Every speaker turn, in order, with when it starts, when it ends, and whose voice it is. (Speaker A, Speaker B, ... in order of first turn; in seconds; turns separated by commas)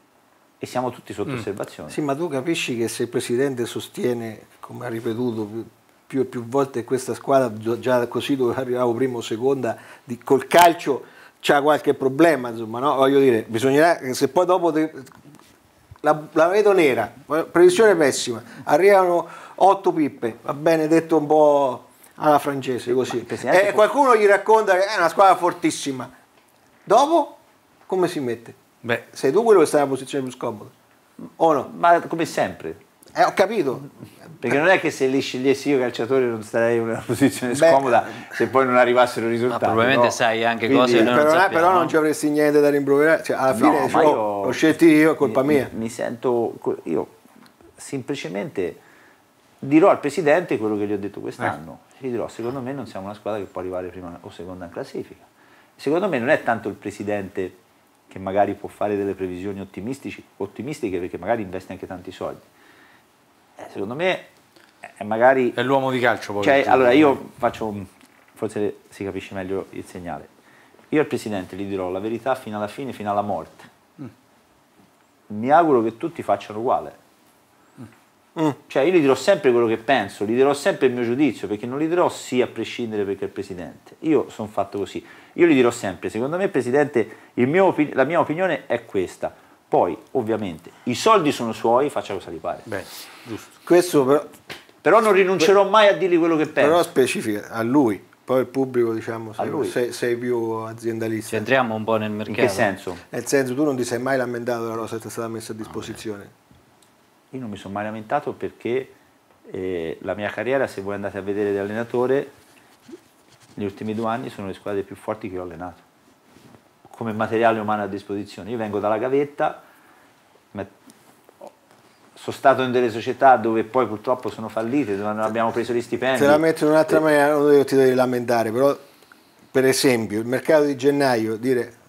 Speaker A: 0.6-2.0, Speaker B: 1.9-15.2, Speaker B: 16.0-26.1, Speaker A: 22.9-23.8, Speaker B: 26.9-30.7, Speaker B: 31.4-31.7, Speaker A: 31.6-32.8, Speaker B: 33.1-33.9, Speaker A: 34.4-41.2, Speaker B: 37.5-38.3, Speaker C: 39.5-41.9, Speaker B: 40.9-45.7, Speaker A: 43.5-44.6, Speaker A: 45.2-47.1, Speaker A: 47.8-48.8, Speaker A: 49.6-55.2, Speaker A: 55.8-57.6, Speaker A: 58.1-62.4, Speaker A: 63.6-64.3, Speaker A: 65.0-65.6, Speaker D: 65.5-67.2, Speaker A: 66.4-70.3, Speaker A: 70.9-73.7, Speaker A: 75.3-77.0, Speaker A: 78.7-92.7, Speaker D: 92.7-93.5, Speaker B: 93.6-94.3, Speaker A: 94.8-96.9, Speaker B: 96.6-101.5, Speaker A: 99.4-99.8, Speaker C: 101.3-102.7, Speaker A: 102.3-103.0, Speaker B: 103.1-106.3, Speaker A: 107.3-108.9, Speaker A: 109.5-112.3, Speaker A: 113.5-115.8, Speaker A: 116.8-119.6, Speaker A: 122.2-127.0, Speaker B: 126.2-128.8, Speaker B: 129.5-131.7